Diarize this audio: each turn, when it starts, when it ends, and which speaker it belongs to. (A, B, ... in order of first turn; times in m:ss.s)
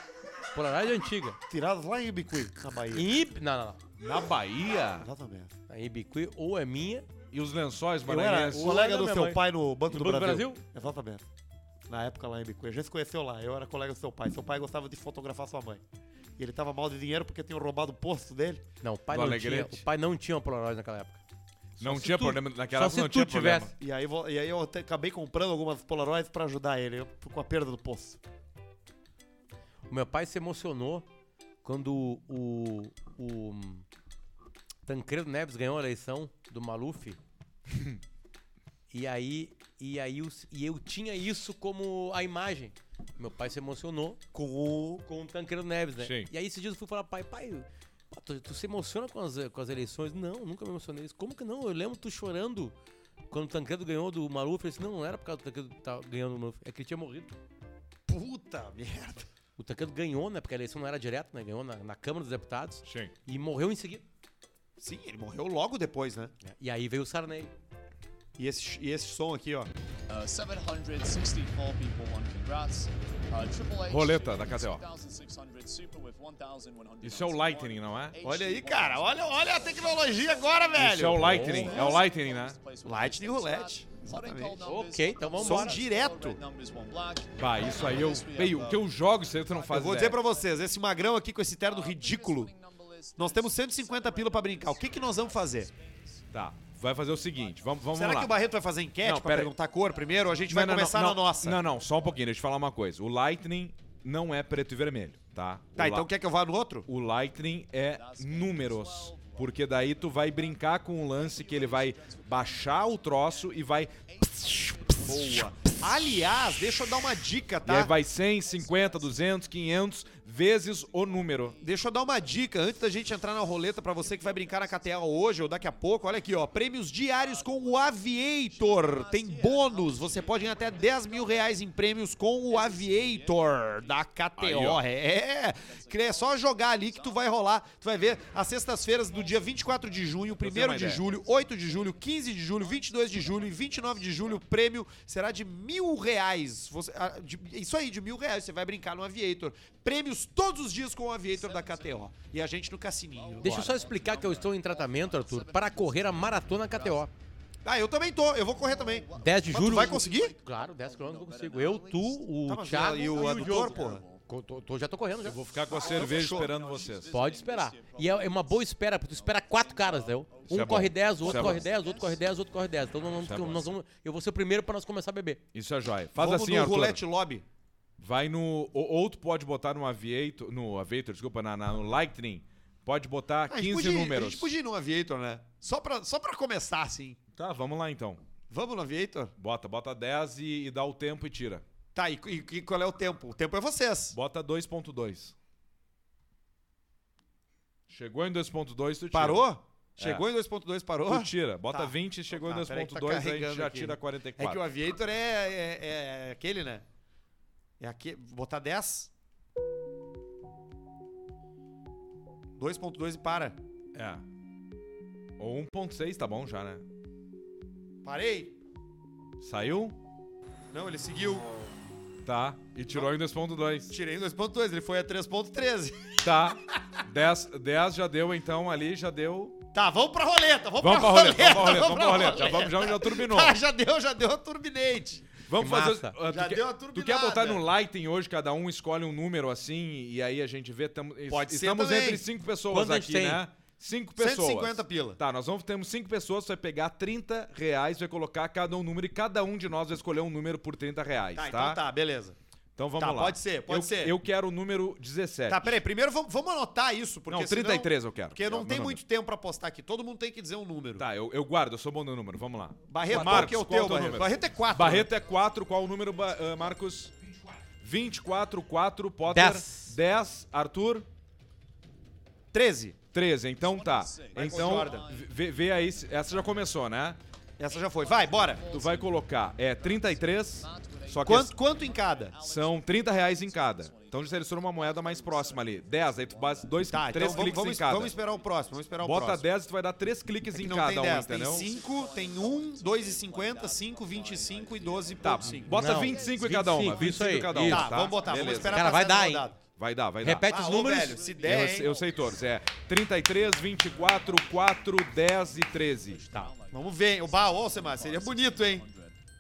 0:00.5-0:01.4 A
0:01.5-0:03.2 B
0:02.9-0:03.8 A
0:04.0-0:05.1 C
0:05.0-0:05.5 B
0:05.7-0:07.1 A
0:07.3-0:08.8 C
0:08.1-0:11.2 B
0:08.1-0:10.6 A
0:11.9-0:15.8 B
0:16.4-0:18.6 B
0:18.8-0:21.2 A
0:19.1-0:19.8 C
0:21.8-0:23.7 C
0:21.8-0:23.7 A
0:23.8-0:28.2 B
0:29.9-0:31.0 A
0:31.6-0:33.8 A
0:34.9-0:37.2 A
0:38.9-0:44.2 A
0:44.3-0:45.0 B
0:45.1-0:52.7 A
0:46.0-0:46.3 C
0:53.3-0:57.3 A
0:58.1-0:59.3 B
0:59.6-1:04.0 A
1:02.8-1:03.1 C
1:04.8-1:06.3 B
1:06.4-1:07.5 A
1:08.4-1:09.7 B
1:10.1-1:31.1 D
1:13.9-1:14.8 C
1:17.0-1:18.2 C
1:18.2-1:21.8 B
1:20.8-1:22.6 C
1:21.2-1:22.0 A
1:22.8-1:24.6 B
1:24.6-1:25.8 A
1:25.4-1:26.4 B
1:27.4-1:30.2 C
1:29.7-1:32.5 B
1:31.6-1:36.3 D
1:33.2-1:35.7 B
1:36.3-1:38.3 C
1:37.0-1:37.9 D
1:37.9-1:41.6 B
1:39.0-1:39.5 C
1:39.7-1:40.5 D
1:40.5-1:46.1 C
1:41.8-1:42.2 D
1:45.8-1:46.9 B
1:46.9-1:54.8 C
1:47.9-1:56.2 D
1:55.0-1:57.9 B
1:57.5-2:11.7 D
1:57.7-2:01.6 C
2:01.6-2:33.8 B
2:12.5-2:14.0 D
2:14.4-2:14.8 C
2:15.6-2:17.3 D
2:18.1-2:24.4 D
2:20.4-2:21.0 C
2:31.3-2:32.1 D
2:33.1-2:37.1 D
2:33.4-2:37.1 A
2:37.6-2:40.3 B
2:38.5-2:44.2 D
2:39.2-2:45.4 A
2:42.5-2:44.0 B
2:45.2-2:47.1 C
2:45.7-2:53.1 D
2:45.7-2:46.6 B
2:47.1-2:55.4 A
2:50.5-2:51.7 C
2:53.2-2:53.7 C
2:55.5-2:57.0 C
2:56.2-2:57.4 B
2:58.0-3:04.5 C
3:03.5-3:07.2 B
3:07.3-3:08.2 C
3:08.5-3:09.3 B
3:09.4-3:11.6 C
3:12.0-3:14.2 B
3:14.1-3:15.3 C
3:17.9-3:19.5 C
3:19.1-3:26.8 B
3:20.0-3:20.3 C
3:21.1-3:24.6 C
3:27.8-3:29.1 B
3:32.6-3:33.6 B
3:33.9-3:34.2 C
3:35.4-3:36.8 C
3:38.0-3:38.6 B
3:39.4-3:40.0 C
3:40.7-3:41.5 B
3:42.2-3:43.9 C
3:43.9-3:46.3 B
3:46.2-3:49.6 C
3:49.7-3:55.4 B
3:50.8-3:53.6 C
3:55.5-4:11.8 C
3:55.6-3:56.2 A
3:56.3-3:57.6 B
4:01.3-4:02.2 B
4:02.7-4:03.4 A
4:04.2-4:05.2 B
4:11.4-4:12.4 B
4:12.8-4:15.7 C
4:13.0-4:14.2 B
4:15.5-4:21.1 B
4:17.3-4:19.0 C
4:21.0-4:27.1 C
4:22.9-4:25.1 B
4:23.1-4:23.5 A
4:27.8-4:31.1 C
4:29.3-4:30.0 A
4:32.5-4:33.0 B
4:33.1-4:37.2 C
4:33.6-4:36.7 D
4:34.3-4:35.1 B
4:37.6-4:38.6 B
4:37.7-4:49.4 D
4:38.7-4:41.5 C
4:41.2-4:42.4 B
4:42.4-4:48.1 C
4:46.9-4:49.4 B
4:49.0-4:51.7 C
4:50.5-4:55.7 B
4:51.2-4:58.8 D
4:55.2-4:58.9 C
4:55.7-4:58.0 A
4:57.6-4:59.6 B
4:58.7-4:59.5 A
4:59.8-5:00.5 C
5:00.2-5:01.2 A
5:00.5-5:02.0 B
5:00.7-5:09.2 D
5:01.3-5:06.5 C
5:06.7-5:08.9 B